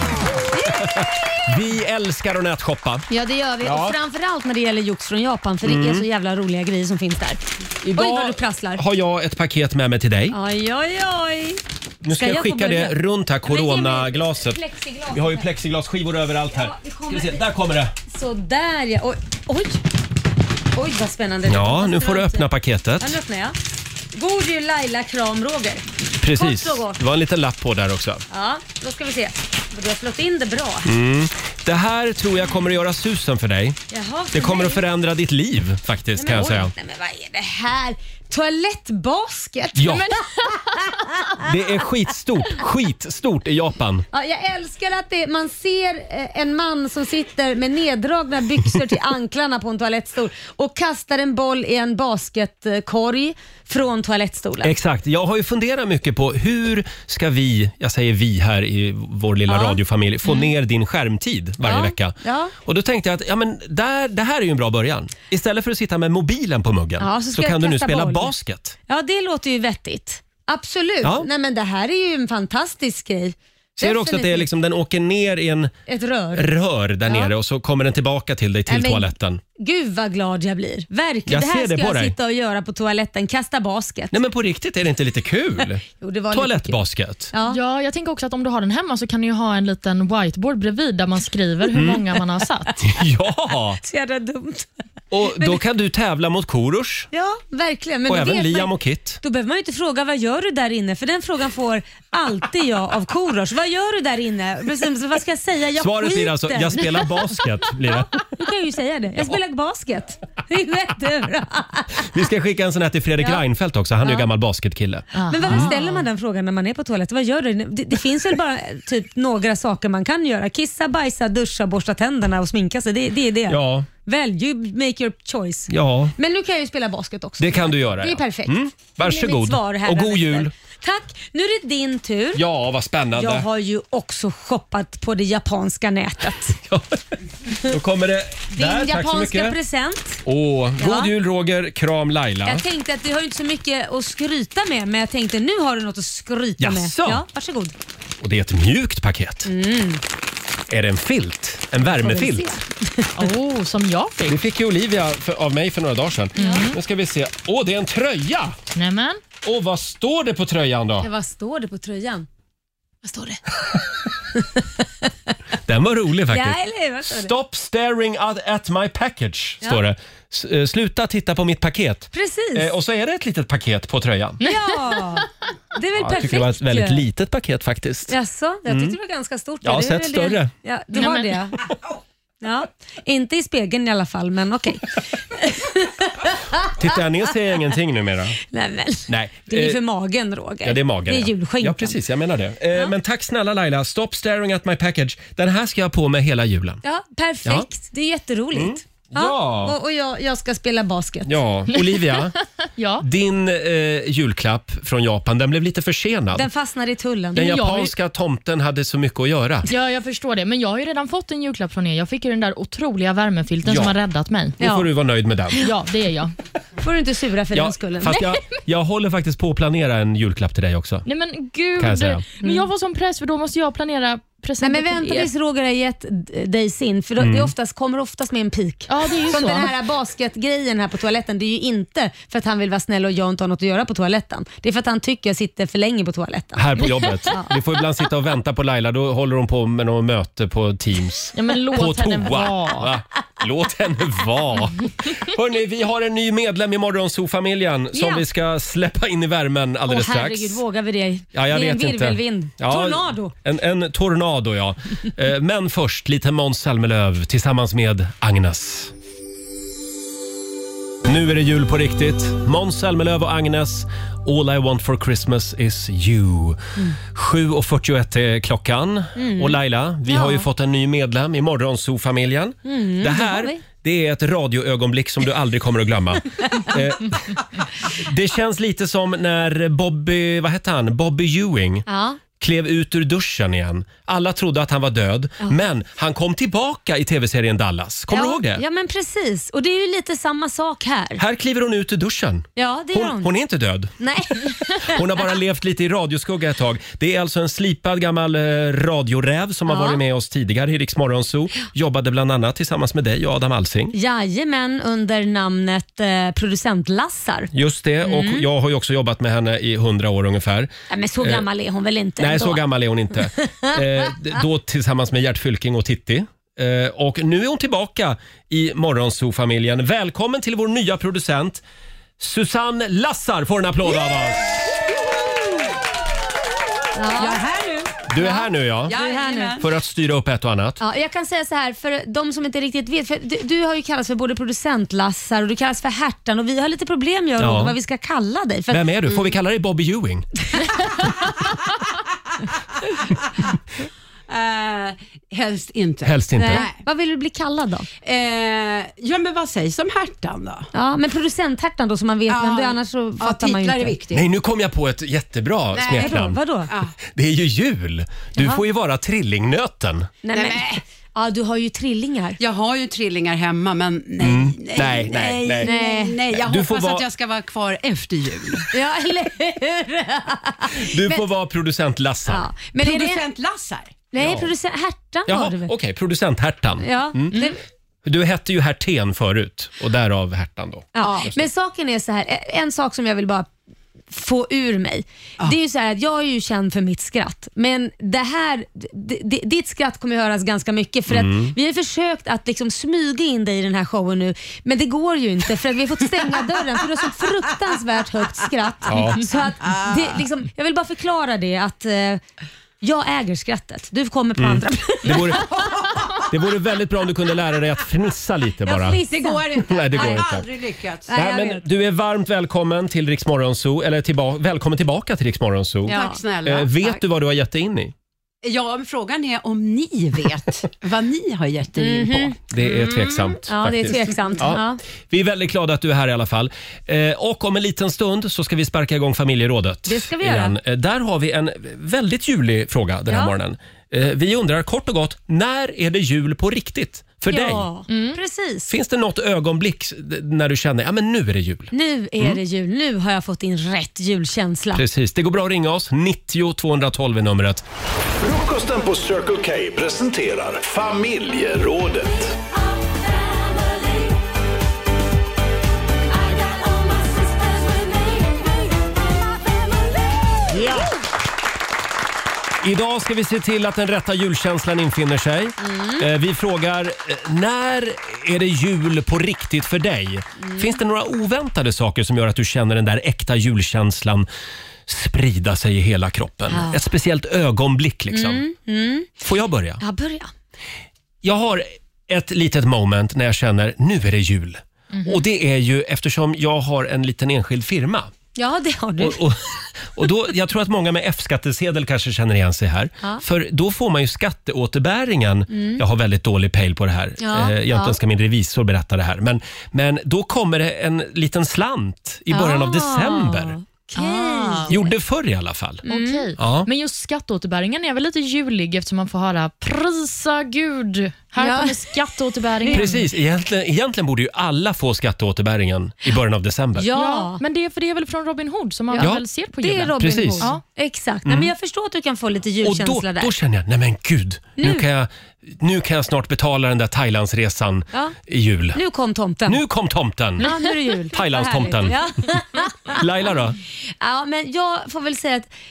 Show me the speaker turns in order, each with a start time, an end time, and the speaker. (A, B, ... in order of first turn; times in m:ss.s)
0:00.5-0:01.0 A
0:00.8-0:03.0 B
0:03.1-0:08.8 A
0:03.6-0:04.0 B
0:05.6-0:06.0 B
0:07.8-0:10.4 B
0:10.3-0:15.5 A
0:12.0-0:17.9 B
0:16.5-0:17.4 A
0:18.1-0:19.8 A
0:20.7-0:23.6 A
0:21.4-0:23.2 B
0:24.1-0:27.0 A
0:26.2-0:28.2 B
0:28.3-0:30.9 A
0:30.8-0:33.8 B
0:33.9-0:34.8 A
0:34.3-0:36.7 B
0:36.2-0:41.5 A
0:39.7-0:40.2 B
0:41.4-0:44.0 B
0:44.1-0:54.7 A
0:54.6-1:08.8 B
0:59.5-1:00.5 A
1:01.6-1:02.5 A
1:07.0-1:08.3 A
1:08.9-1:14.5 A
1:11.0-1:11.3 B
1:13.8-1:15.7 B
1:15.9-1:16.5 A
1:16.3-1:19.4 B
1:17.1-1:17.3 A
1:18.7-1:24.2 A
1:21.3-1:22.1 B
1:24.1-1:27.3 B
1:26.0-1:26.8 A
1:27.3-1:27.6 A
1:27.5-1:32.8 C
1:31.7-1:32.0 B
1:32.8-1:33.8 B
1:33.8-1:34.7 A
1:35.1-1:37.1 B
1:37.1-1:47.4 A
1:38.1-1:39.2 B
1:45.8-1:48.2 B
1:48.0-1:52.1 A
1:52.0-1:55.7 B
1:53.2-1:53.4 A
1:55.1-1:56.0 C
1:55.3-2:12.4 A
2:03.5-2:03.9 B
2:05.7-2:06.1 B
2:07.4-2:10.5 B
2:12.3-2:13.5 B
2:13.1-2:16.6 A
2:16.6-2:17.0 B
2:17.6-2:19.6 B
2:18.5-2:20.2 A
2:20.2-2:22.6 B
2:20.8-2:21.1 A
2:22.4-2:27.7 A
2:26.6-2:27.2 B
2:28.2-2:29.5 B
2:29.4-2:30.0 A
2:30.7-2:32.5 B
2:31.8-2:33.1 A
2:33.2-2:34.4 C
2:34.3-2:38.6 B
2:36.4-2:36.8 C
2:36.4-2:36.6 A
2:38.7-2:39.2 C
2:39.4-2:41.1 B
2:41.0-2:42.3 A
2:43.0-2:43.5 A
2:44.3-2:45.3 A
2:45.6-2:54.4 B
2:46.3-2:47.3 A
2:52.1-2:52.7 A
2:54.4-2:57.0 A
2:56.0-2:58.1 B
2:58.1-3:01.7 A
2:58.7-2:59.0 B
2:59.6-3:00.5 B
3:01.0-3:01.3 C
3:02.4-3:06.7 A
3:06.7-3:08.4 B
3:08.5-3:12.0 A
3:09.1-3:09.8 B
3:10.6-3:16.8 B
3:16.8-3:21.4 A
3:18.5-3:19.7 B
3:21.2-3:22.3 B
3:21.7-3:22.1 C
3:22.8-3:23.0 C
3:23.0-3:26.5 B
3:26.3-3:27.6 A
3:27.3-3:29.7 B
3:27.4-3:27.9 C
3:29.7-3:34.6 C
3:33.6-3:34.0 B
3:34.6-3:35.6 B
3:34.6-3:34.9 A
3:35.6-3:36.3 C
3:36.8-3:38.3 A
3:37.5-3:41.0 B
3:41.0-3:45.3 C
3:41.8-3:42.2 B
3:42.4-3:42.7 A
3:44.6-3:57.5 A
3:47.2-3:47.5 B
3:48.9-3:49.7 C
3:56.6-4:10.6 B
4:01.3-4:02.9 C
4:07.9-4:08.2 A
4:09.9-4:13.3 A
4:11.3-4:18.9 B
4:21.0-4:37.4 B
4:29.2-4:30.4 A
4:32.6-4:33.6 A
4:37.9-4:41.8 B
4:41.9-4:42.2 A
4:42.4-4:48.6 B
4:48.1-4:51.2 A
4:51.2-5:03.9 B
4:52.6-4:53.3 A
4:54.0-4:55.0 A
4:59.7-5:00.0 A
5:03.9-5:07.5 A
5:07.5-5:11.4 B
5:08.0-5:08.4 A
5:10.9-5:12.6 A
5:12.2-5:21.6 B
5:13.2-5:14.1 A
5:22.2-5:24.6 B
5:26.9-5:27.4 A
5:27.1-5:27.9 D
5:28.1-5:29.0 B
5:28.2-5:29.6 A
5:28.9-5:29.6 D
5:29.6-5:30.8 B
5:30.8-5:38.9 A
5:37.4-5:37.8 B
5:38.7-5:40.3 B
5:44.3-5:46.8 D
5:46.0-5:46.6 B
5:46.4-5:47.9 A
5:48.0-5:50.7 D
5:50.7-5:54.0 A
5:52.3-5:54.3 D
5:54.1-5:56.4 B
5:55.7-5:56.9 D
5:55.9-5:56.7 A
5:57.0-6:00.1 B
5:58.4-5:58.6 A
6:00.2-6:02.4 A
6:00.3-6:00.8 D
6:02.4-6:08.7 D
6:04.2-6:05.7 B
6:04.8-6:06.2 A
6:06.3-6:07.0 B
6:08.7-6:10.9 A
6:10.7-6:12.5 B
6:12.3-6:13.3 A
6:12.8-6:14.0 D
6:14.1-6:15.7 A
6:14.2-6:14.5 B
6:15.3-6:17.5 B
6:16.8-6:17.6 A
6:18.0-6:21.0 B
6:20.9-6:23.5 A
6:21.0-6:21.4 D
6:24.1-6:42.2 A
6:31.1-6:31.5 B
6:38.9-6:39.2 B
6:39.7-6:40.0 D
6:42.8-6:45.5 A
6:44.4-6:45.5 B
6:46.3-6:49.0 B
6:48.6-6:50.3 A
6:48.8-6:51.1 D
6:49.6-6:50.5 B
6:51.1-6:51.6 A
6:51.1-6:57.9 B
6:55.8-6:57.0 D
6:55.9-6:56.2 A
6:58.4-7:03.4 D
7:01.8-7:04.8 A
7:02.5-7:17.7 B
7:03.9-7:04.3 D
7:09.8-7:10.5 A
7:13.1-7:13.3 A
7:17.3-7:18.7 A
7:17.9-7:18.2 C
7:18.7-7:22.4 B
7:21.7-7:24.8 A
7:24.7-7:27.6 B
7:28.1-7:32.3 E
7:36.4-7:38.2 D
7:40.5-7:41.0 B
7:42.6-7:54.3 B
7:45.6-7:46.1 A
7:50.4-7:50.8 A
7:54.9-7:58.4 B
7:56.5-7:56.8 A
7:58.1-7:59.2 A
7:59.2-7:59.8 B
7:59.8-8:00.3 A
8:01.2-8:08.1 B
8:08.4-8:09.2 A
8:09.0-8:23.6 B
8:15.5-8:15.8 A
8:17.2-8:18.0 A
8:22.3-8:24.9 A
8:23.9-8:24.8 C
8:24.7-8:25.8 B
8:25.8-8:26.3 A
8:25.9-8:33.0 C
8:26.4-8:26.7 B
8:31.4-8:32.0 A
8:32.6-8:32.9 A
8:32.7-8:36.9 B
8:36.8-8:37.4 A
8:36.9-8:40.6 C
8:38.9-8:43.3 A
8:40.0-8:40.5 B
8:41.2-8:41.5 B
8:42.6-8:48.8 B
8:44.6-8:44.8 A
8:48.7-8:49.6 A
8:49.5-8:50.5 B
8:50.4-8:53.0 A
8:51.1-8:52.0 B
8:52.9-8:53.6 B
8:54.0-8:55.5 A